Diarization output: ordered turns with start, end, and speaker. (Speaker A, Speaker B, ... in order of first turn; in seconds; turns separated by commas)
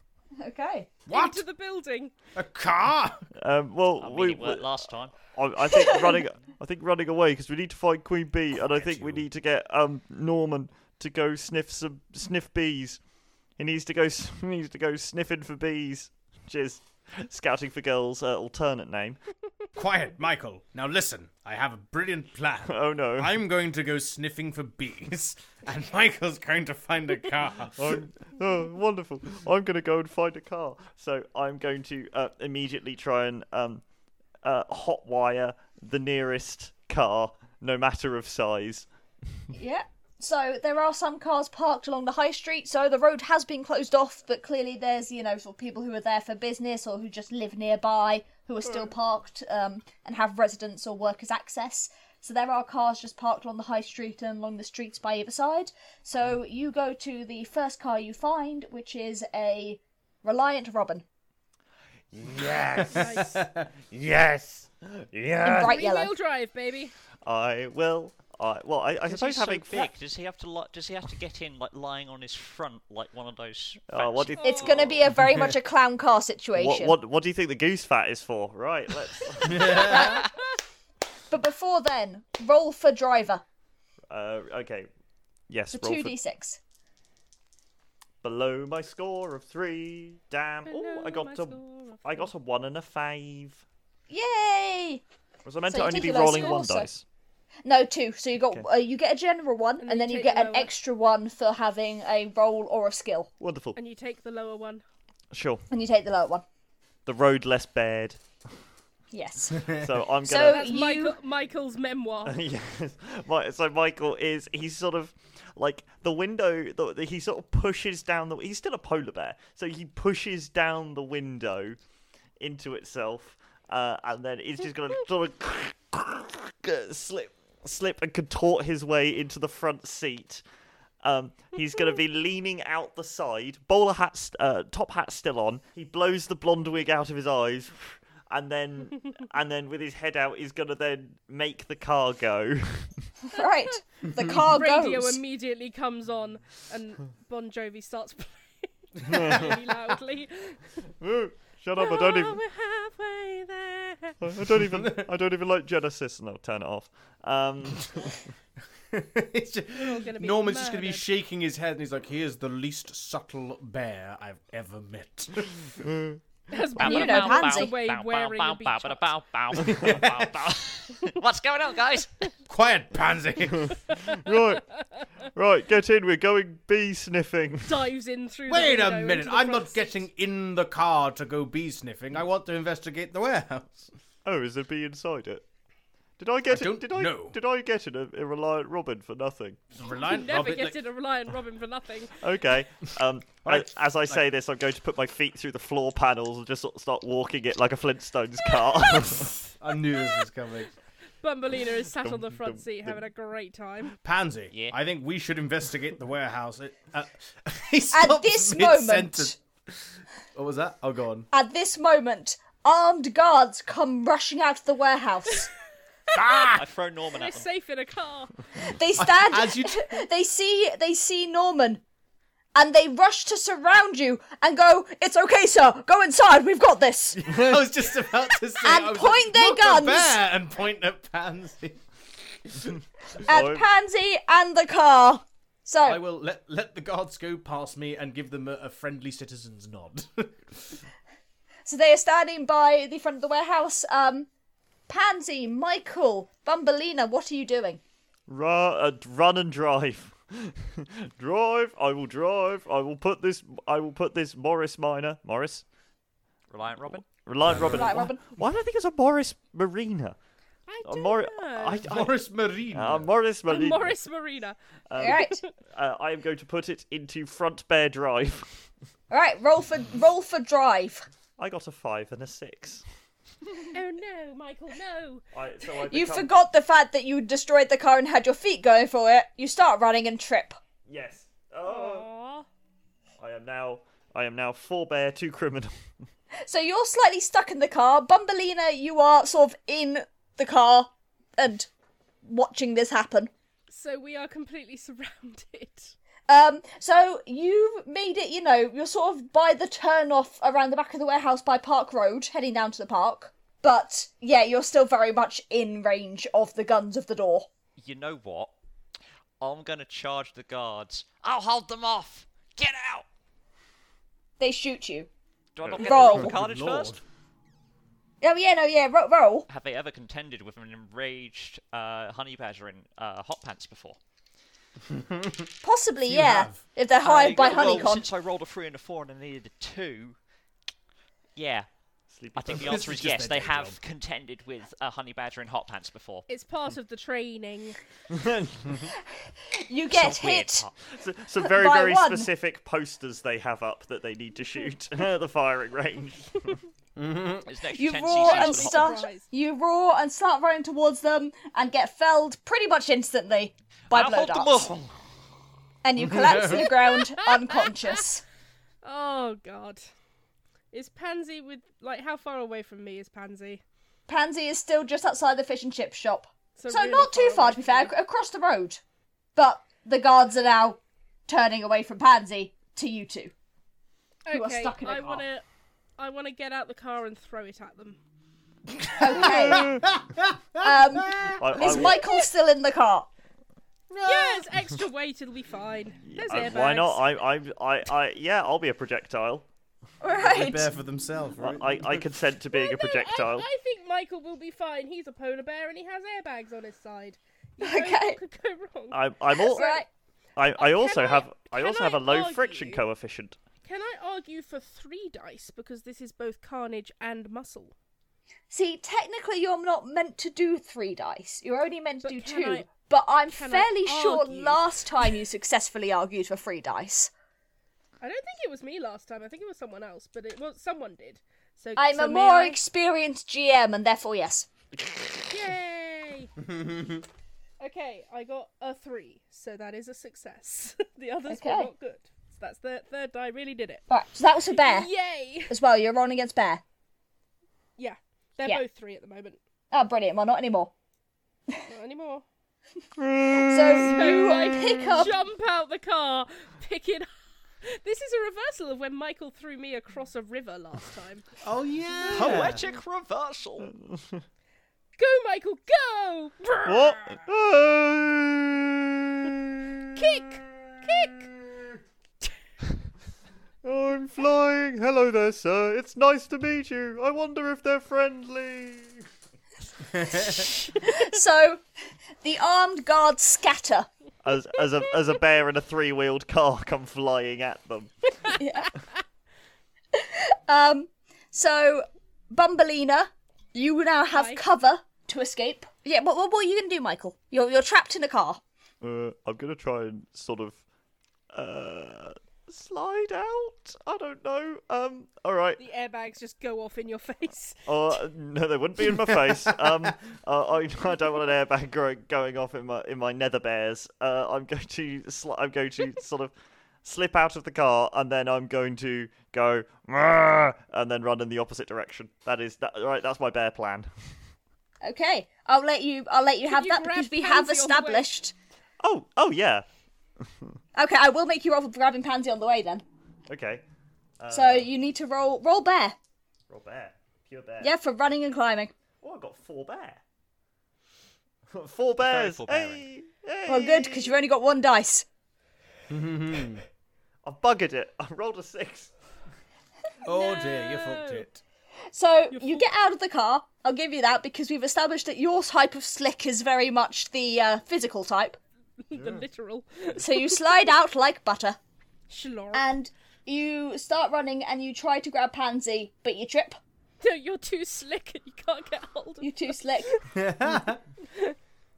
Speaker A: 0.4-1.0, Speaker B: 1.1-1.4, Speaker C: 1.1-2.1, Speaker B: 2.4-3.2, Speaker D: 3.4-4.7, Speaker E: 4.0-5.2, Speaker D: 5.3-13.0, Speaker B: 8.7-9.2, Speaker D: 13.6-19.2, Speaker B: 19.8-28.1, Speaker D: 22.7-23.4, Speaker D: 27.8-33.8, Speaker D: 34.4-38.9, Speaker A: 39.5-61.0, Speaker B: 62.1-65.7, Speaker C: 62.9-63.4, Speaker A: 65.4-66.1, Speaker C: 65.6-66.9, Speaker D: 67.2-69.9, Speaker E: 69.0-74.8, Speaker D: 73.9-75.1, Speaker C: 74.4-74.9, Speaker A: 74.4-77.0, Speaker B: 75.2-75.6, Speaker D: 76.5-80.2, Speaker B: 79.4-80.3, Speaker A: 81.3-83.4, Speaker D: 84.1-84.9, Speaker D: 85.5-86.2, Speaker A: 85.7-86.6, Speaker D: 88.2-93.6, Speaker C: 90.7-92.3, Speaker A: 94.1-95.0, Speaker D: 95.5-97.0, Speaker A: 95.7-96.9, Speaker C: 96.0-96.6, Speaker A: 97.7-103.3, Speaker C: 99.8-100.7, Speaker D: 103.4-103.8, Speaker C: 103.8-104.8, Speaker D: 105.3-105.7, Speaker A: 105.7-106.4, Speaker D: 107.1-108.2, Speaker A: 109.1-111.2, Speaker B: 109.6-109.9, Speaker D: 109.8-110.7, Speaker C: 110.4-112.4, Speaker D: 112.3-121.8, Speaker D: 122.4-130.4, Speaker D: 131.0-142.9, Speaker A: 143.2-145.2, Speaker C: 143.4-150.6, Speaker D: 149.1-149.6, Speaker D: 151.0-152.4, Speaker C: 151.8-154.2, Speaker D: 154.2-158.2, Speaker B: 154.4-155.1, Speaker B: 158.9-165.7, Speaker C: 159.8-161.0, Speaker D: 165.8-166.2, Speaker C: 166.5-169.1, Speaker E: 166.8-172.2, Speaker A: 166.8-167.7, Speaker B: 169.6-170.5, Speaker B: 172.5-173.8, Speaker D: 173.7-174.7, Speaker D: 175.3-177.9, Speaker C: 177.7-179.9, Speaker B: 178.5-183.9, Speaker D: 184.2-185.4, Speaker D: 186.2-189.6, Speaker B: 186.5-187.4, Speaker B: 189.8-190.8, Speaker C: 190.0-192.2, Speaker D: 192.2-199.4, Speaker B: 193.4-194.2, Speaker C: 198.9-199.3, Speaker B: 199.6-200.7, Speaker C: 201.2-203.9, Speaker D: 202.0-202.9, Speaker B: 204.0-209.8, Speaker A: 207.9-209.3, Speaker B: 210.3-211.3, Speaker A: 211.3-215.5, Speaker B: 216.1-216.6, Speaker C: 216.2-216.4, Speaker E: 216.5-217.5, Speaker C: 217.1-218.4, Speaker A: 218.6-221.8, Speaker B: 219.0-219.9, Speaker A: 222.6-227.4, Speaker B: 227.2-231.8, Speaker A: 228.6-230.2, Speaker A: 233.3-236.0, Speaker D: 233.3-233.7, Speaker B: 235.9-240.8, Speaker A: 241.7-244.3, Speaker A: 244.9-247.8, Speaker D: 248.3-255.6, Speaker E: 256.5-257.1, Speaker D: 256.9-260.2, Speaker B: 257.4-258.1, Speaker A: 257.7-258.2, Speaker C: 260.7-261.9, Speaker D: 260.9-262.2, Speaker B: 261.9-263.1, Speaker D: 262.7-264.0, Speaker C: 263.5-265.5, Speaker D: 264.9-268.7, Speaker A: 265.0-265.4, Speaker A: 269.1-271.1, Speaker D: 271.4-272.8, Speaker C: 273.7-275.2, Speaker D: 275.3-276.3, Speaker A: 275.9-280.6, Speaker D: 280.9-282.1, Speaker C: 281.6-282.5, Speaker D: 283.2-285.7, Speaker A: 286.4-291.7, Speaker A: 292.2-293.3, Speaker C: 293.7-295.9, Speaker A: 296.3-307.5, Speaker E: 307.8-308.5, Speaker E: 309.4-313.1, Speaker A: 314.4-315.1, Speaker E: 315.6-317.0, Speaker D: 315.6-316.1, Speaker A: 315.8-316.3, Speaker B: 315.8-317.0, Speaker A: 318.2-319.5, Speaker E: 319.5-324.0, Speaker B: 324.9-325.5, Speaker A: 325.6-328.1, Speaker B: 326.1-326.6, Speaker E: 327.0-330.2, Speaker E: 331.4-331.7, Speaker D: 332.1-333.0, Speaker E: 332.3-336.3, Speaker B: 332.5-333.8, Speaker C: 336.3-337.8, Speaker D: 338.1-338.7, Speaker A: 339.5-340.7, Speaker E: 339.9-340.8, Speaker D: 340.9-346.6, Speaker A: 341.4-342.3, Speaker B: 347.0-347.5, Speaker E: 347.5-348.9, Speaker A: 347.7-354.7, Speaker C: 348.1-349.3, Speaker E: 353.9-354.9, Speaker A: 355.8-358.2, Speaker B: 356.0-356.7, Speaker C: 356.6-358.0, Speaker C: 358.8-359.9, Speaker C: 360.7-363.6, Speaker A: 364.1-368.8, Speaker C: 366.6-367.9, Speaker A: 369.4-373.3, Speaker C: 374.3-375.4, Speaker A: 374.3-375.2, Speaker C: 376.0-378.0, Speaker B: 378.7-381.9, Speaker A: 379.0-379.8, Speaker D: 379.2-379.7, Speaker A: 380.6-383.1, Speaker D: 381.4-382.0, Speaker C: 381.8-382.2, Speaker B: 383.9-384.5, Speaker C: 384.0-387.0, Speaker D: 386.1-389.4, Speaker A: 390.0-390.7, Speaker B: 390.1-392.1, Speaker D: 391.4-393.5, Speaker C: 392.5-399.9, Speaker A: 397.6-398.2, Speaker D: 398.9-399.6, Speaker A: 399.3-399.9, Speaker D: 400.4-403.4, Speaker C: 400.6-402.8, Speaker C: 403.6-407.7, Speaker A: 408.5-417.1, Speaker C: 412.0-412.7, Speaker C: 413.3-414.6, Speaker C: 418.0-422.6, Speaker A: 421.8-424.5, Speaker C: 425.3-426.3, Speaker B: 426.4-427.0, Speaker C: 427.6-433.8, Speaker A: 431.3-431.7, Speaker A: 433.9-434.9, Speaker C: 434.5-435.6, Speaker A: 435.5-436.6, Speaker C: 437.8-439.4, Speaker A: 439.7-440.7, Speaker C: 441.7-442.2, Speaker D: 443.0-444.0, Speaker A: 443.3-445.2, Speaker C: 443.8-447.1, Speaker C: 447.6-451.3, Speaker B: 451.4-452.6, Speaker C: 452.0-452.6, Speaker E: 452.1-453.7, Speaker D: 453.7-454.2, Speaker C: 455.0-457.2, Speaker D: 456.6-459.9, Speaker C: 460.0-461.3, Speaker D: 463.6-469.0, Speaker B: 469.9-470.5, Speaker A: 470.2-471.6, Speaker A: 472.2-473.9, Speaker D: 474.2-478.4, Speaker A: 478.4-478.7, Speaker A: 479.9-488.4, Speaker C: 484.1-484.4, Speaker D: 488.8-490.6, Speaker D: 491.3-495.6, Speaker C: 495.6-497.7, Speaker D: 497.7-506.3, Speaker B: 499.2-499.9, Speaker D: 506.8-513.9, Speaker A: 514.8-518.3, Speaker C: 516.4-518.1, Speaker D: 518.8-519.6, Speaker A: 520.8-522.8, Speaker D: 523.3-523.6, Speaker D: 524.2-524.7, Speaker A: 524.3-526.0, Speaker D: 526.5-527.7, Speaker A: 527.6-528.7, Speaker D: 529.0-530.0, Speaker D: 531.5-534.2, Speaker E: 532.0-532.9, Speaker A: 533.5-535.1, Speaker B: 535.9-536.6, Speaker D: 537.2-538.9, Speaker C: 540.0-541.3, Speaker B: 540.0-541.4, Speaker A: 541.9-548.4, Speaker C: 542.3-542.6, Speaker C: 548.9-550.5, Speaker A: 550.0-551.6, Speaker C: 552.1-552.7, Speaker A: 552.5-556.6, Speaker C: 557.0-559.3, Speaker A: 559.2-560.0, Speaker B: 560.1-560.8